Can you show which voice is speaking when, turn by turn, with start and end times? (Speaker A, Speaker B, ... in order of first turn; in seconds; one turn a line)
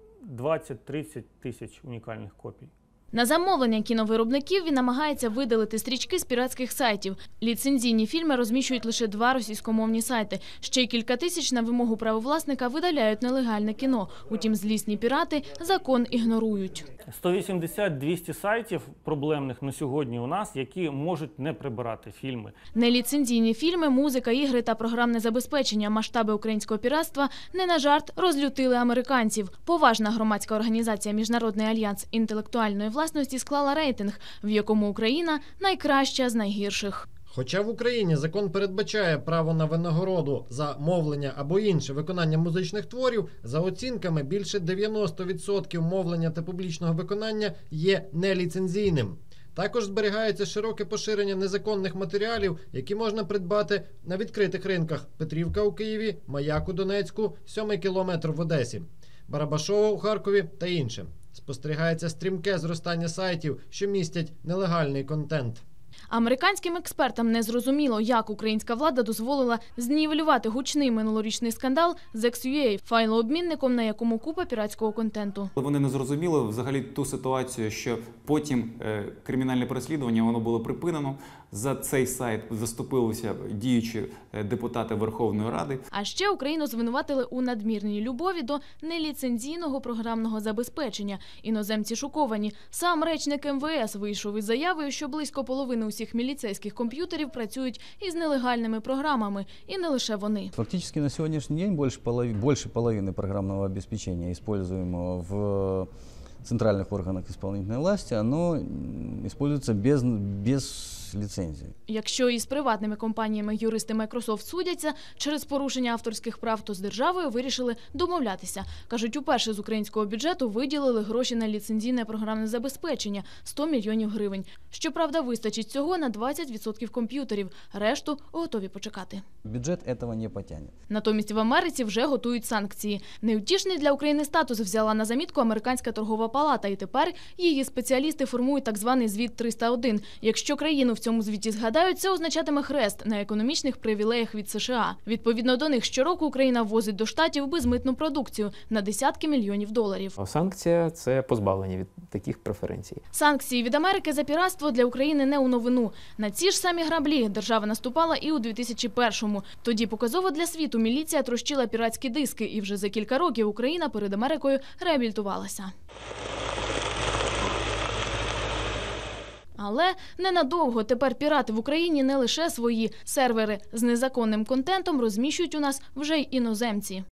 Speaker A: 0.2-2.7
Speaker B: 3.1-16.9
Speaker A: 17.1-22.5
Speaker B: 22.7-37.0
Speaker C: 37.3-65.6
Speaker B: 66.1-75.5
Speaker D: 75.6-85.8
Speaker B: 85.9-100.5
Speaker E: 100.5-105.9
Speaker E: 106.4-111.7
Speaker B: 111.9-129.2
Speaker E: 129.4-130.7
Speaker B: 130.9-150.1
Speaker F: 150.2-153.0
Speaker B: 153.1-165.7
Speaker B: 169.6-177.0